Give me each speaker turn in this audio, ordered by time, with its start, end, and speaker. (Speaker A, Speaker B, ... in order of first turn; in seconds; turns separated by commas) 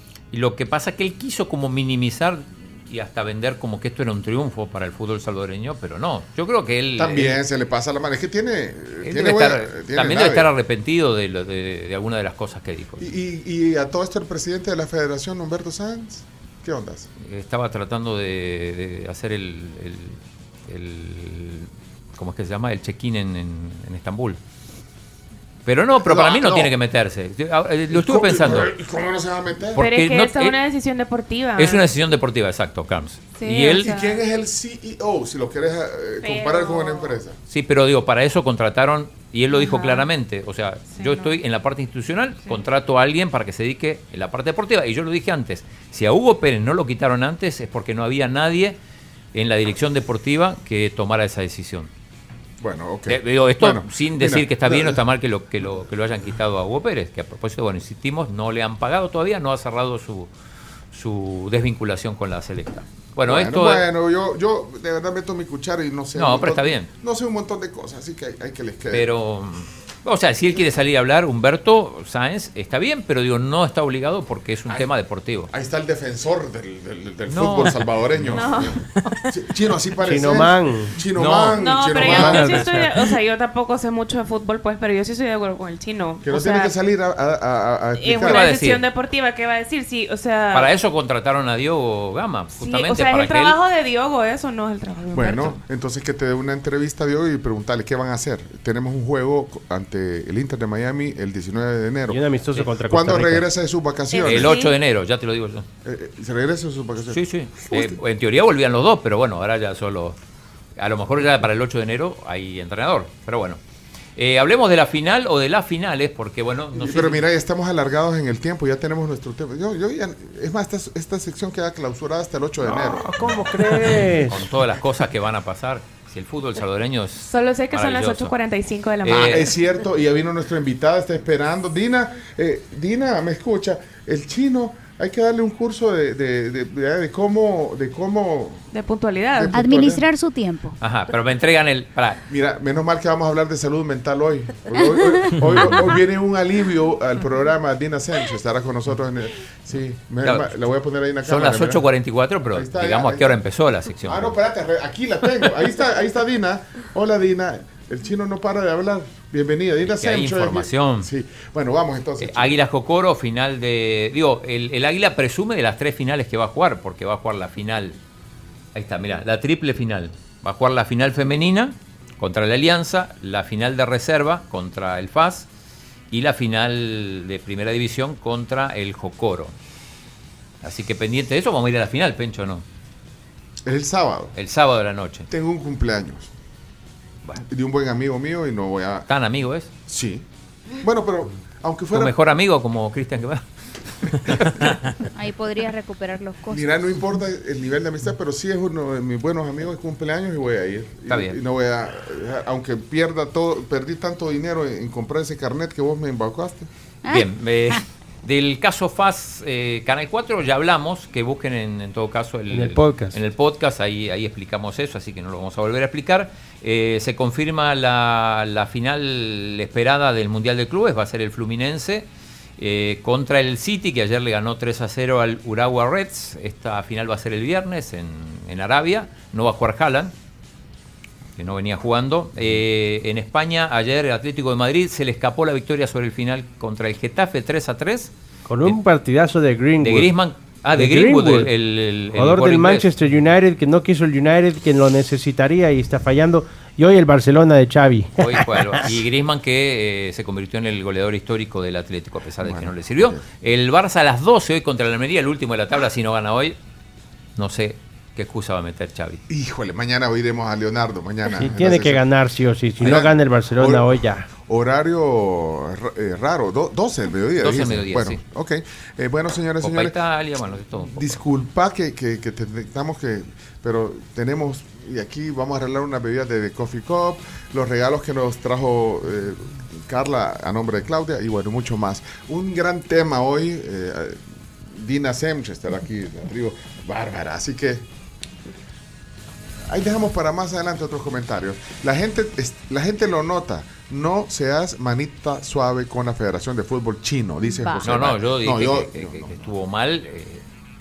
Speaker A: 0.3-7.4, Speaker B: 7.0-10.5, Speaker A: 9.0-13.1, Speaker B: 13.0-17.1, Speaker A: 17.2-24.4, Speaker A: 25.7-28.7, Speaker B: 26.0-26.7, Speaker B: 27.9-29.8, Speaker A: 29.7-30.6, Speaker C: 29.8-31.9, Speaker A: 31.6-33.9, Speaker C: 33.4-34.2, Speaker B: 33.8-37.4, Speaker C: 36.2-37.2, Speaker A: 37.5-48.8, Speaker C: 39.5-40.1, Speaker C: 40.9-41.4, Speaker A: 49.3-51.9, Speaker B: 52.6-55.0, Speaker A: 53.1-60.3, Speaker A: 60.9-63.9, Speaker B: 63.2-69.1, Speaker A: 66.2-66.9, Speaker A: 68.9-75.5, Speaker B: 75.5-82.7, Speaker A: 77.3-78.5, Speaker C: 78.3-78.7, Speaker D: 80.0-81.0, Speaker A: 81.1-82.7, Speaker C: 81.5-86.7, Speaker B: 86.2-88.4, Speaker C: 88.0-90.7, Speaker A: 88.3-88.9, Speaker A: 90.5-93.6, Speaker C: 92.5-95.6, Speaker B: 95.1-102.2, Speaker D: 102.1-103.5, Speaker B: 102.8-104.5, Speaker C: 104.1-104.8, Speaker A: 104.2-105.7, Speaker B: 105.8-108.0, Speaker A: 107.1-110.2, Speaker A: 110.8-113.6, Speaker A: 114.2-117.3, Speaker B: 116.7-123.3, Speaker D: 122.6-124.5, Speaker A: 123.7-128.4, Speaker C: 127.2-129.6, Speaker A: 129.0-129.5, Speaker B: 129.1-138.7, Speaker C: 138.7-139.6, Speaker B: 139.3-140.0, Speaker E: 139.5-140.7, Speaker A: 140.8-142.2, Speaker B: 142.3-151.9, Speaker A: 150.2-154.4, Speaker B: 152.5-153.4, Speaker B: 154.0-162.6, Speaker A: 159.9-161.1, Speaker A: 162.2-168.0, Speaker A: 168.8-175.5, Speaker A: 176.1-179.5, Speaker A: 180.6-182.7, Speaker B: 183.7-184.3, Speaker A: 184.3-185.3, Speaker B: 185.3-186.3, Speaker B: 187.4-189.1, Speaker A: 189.1-189.7, Speaker B: 189.9-190.2, Speaker B: 190.8-192.2, Speaker A: 191.9-194.7, Speaker E: 195.1-196.7, Speaker B: 196.5-206.7, Speaker A: 201.1-201.4, Speaker E: 207.1-207.8, Speaker A: 207.1-222.1, Speaker D: 212.5-213.2, Speaker A: 222.6-230.1, Speaker A: 231.4-238.1, Speaker D: 238.4-240.2, Speaker A: 239.8-242.9, Speaker D: 240.8-241.5, Speaker D: 242.1-248.9, Speaker A: 248.2-256.6, Speaker B: 252.4-253.2, Speaker A: 257.4-259.2, Speaker B: 259.3-262.1, Speaker D: 261.4-264.3, Speaker B: 262.8-284.2, Speaker A: 267.4-268.2, Speaker A: 269.6-271.2, Speaker B: 284.7-287.9, Speaker B: 289.7-299.5, Speaker E: 297.4-297.9, Speaker A: 297.9-300.4